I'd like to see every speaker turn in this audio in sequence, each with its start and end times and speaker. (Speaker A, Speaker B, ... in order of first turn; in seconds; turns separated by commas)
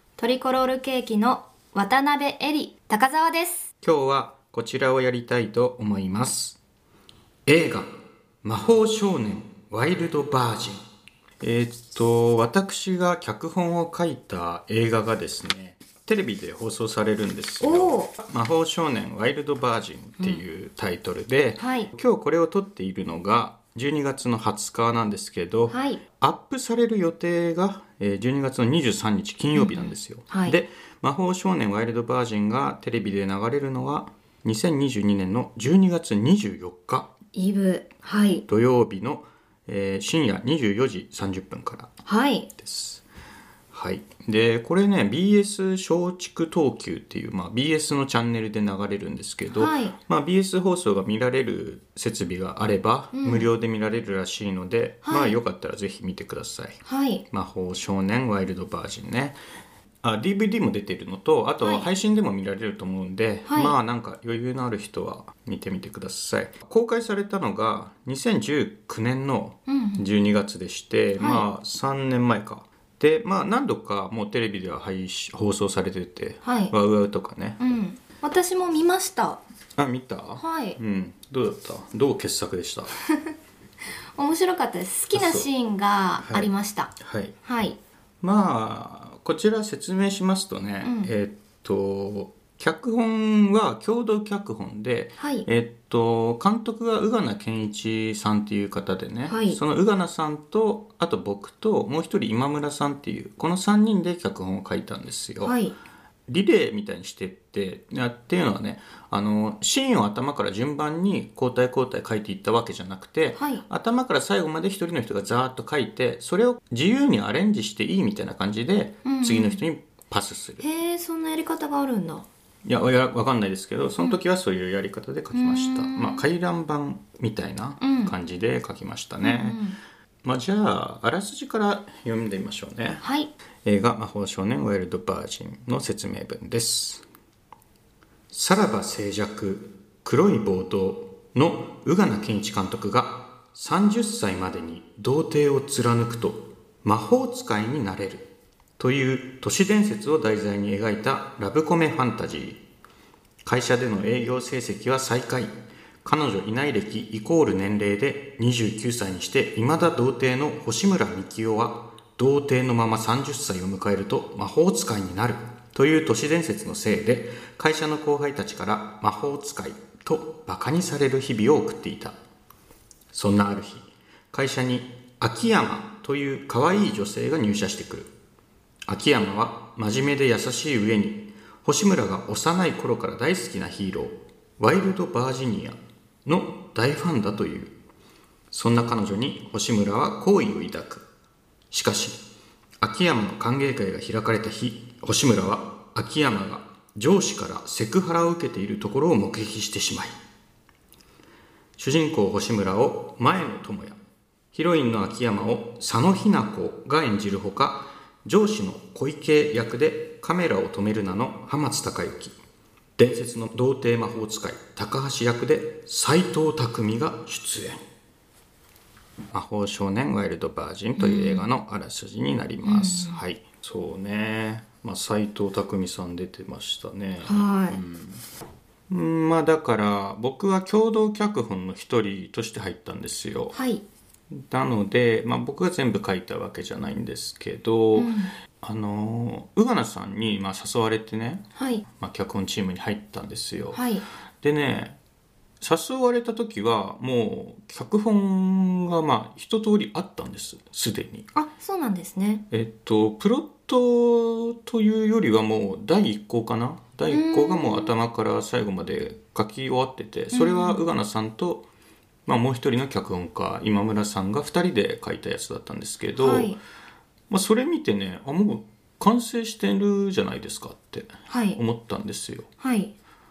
Speaker A: 0.2-3.7, Speaker B: 3.8-6.6, Speaker B: 7.5-7.9, Speaker B: 8.4-10.8, Speaker B: 11.4-37.1, Speaker A: 17.6-18.1, Speaker A: 21.6-21.9, Speaker A: 25.7-26.0, Speaker A: 29.5-30.6, Speaker A: 37.3-38.4, Speaker B: 38.5-41.9, Speaker A: 42.0-42.5, Speaker B: 42.6-43.0, Speaker B: 43.7-59.4, Speaker A: 49.5-50.0, Speaker A: 53.1-53.5, Speaker A: 55.0-55.4, Speaker A: 56.8-57.2, Speaker B: 60.0-77.6, Speaker A: 61.6-61.9, Speaker A: 63.5-63.8, Speaker A: 69.7-70.0, Speaker A: 71.2-71.5, Speaker A: 76.4-76.7, Speaker A: 77.6-79.4, Speaker B: 79.8-83.0, Speaker A: 80.3-80.8, Speaker A: 84.2-87.8, Speaker B: 85.1-85.5, Speaker B: 86.2-87.3, Speaker B: 88.2-105.6, Speaker A: 90.8-91.1, Speaker A: 95.2-95.5, Speaker A: 99.3-99.6, Speaker A: 105.4-105.7, Speaker B: 106.3-120.6, Speaker A: 113.4-113.6, Speaker A: 119.0-119.6, Speaker A: 120.6-122.2, Speaker B: 122.6-129.6, Speaker A: 125.3-126.2, Speaker A: 127.8-128.1, Speaker A: 129.2-129.8, Speaker B: 130.2-133.0, Speaker A: 133.0-133.3, Speaker B: 133.6-137.0, Speaker B: 138.3-152.6, Speaker B: 153.4-155.5, Speaker B: 156.0-172.2, Speaker B: 173.1-178.1, Speaker B: 178.9-187.8, Speaker B: 188.5-191.1, Speaker B: 191.7-192.2, Speaker B: 192.8-200.1, Speaker B: 201.8-204.0, Speaker B: 204.5-212.3, Speaker B: 213.0-217.8, Speaker B: 219.3-228.2, Speaker A: 221.0-221.5, Speaker A: 222.6-223.2, Speaker A: 227.2-227.8, Speaker B: 228.9-233.6, Speaker A: 233.5-233.8, Speaker B: 234.3-243.8, Speaker A: 237.9-238.3, Speaker A: 241.6-241.8, Speaker A: 243.7-244.0, Speaker B: 244.4-245.0, Speaker B: 245.6-251.3, Speaker A: 251.3-252.4, Speaker B: 252.5-261.7, Speaker A: 257.1-257.9, Speaker A: 260.3-260.8, Speaker B: 262.2-266.6, Speaker A: 266.2-266.6, Speaker B: 267.3-272.5, Speaker A: 271.3-271.6, Speaker A: 272.6-272.9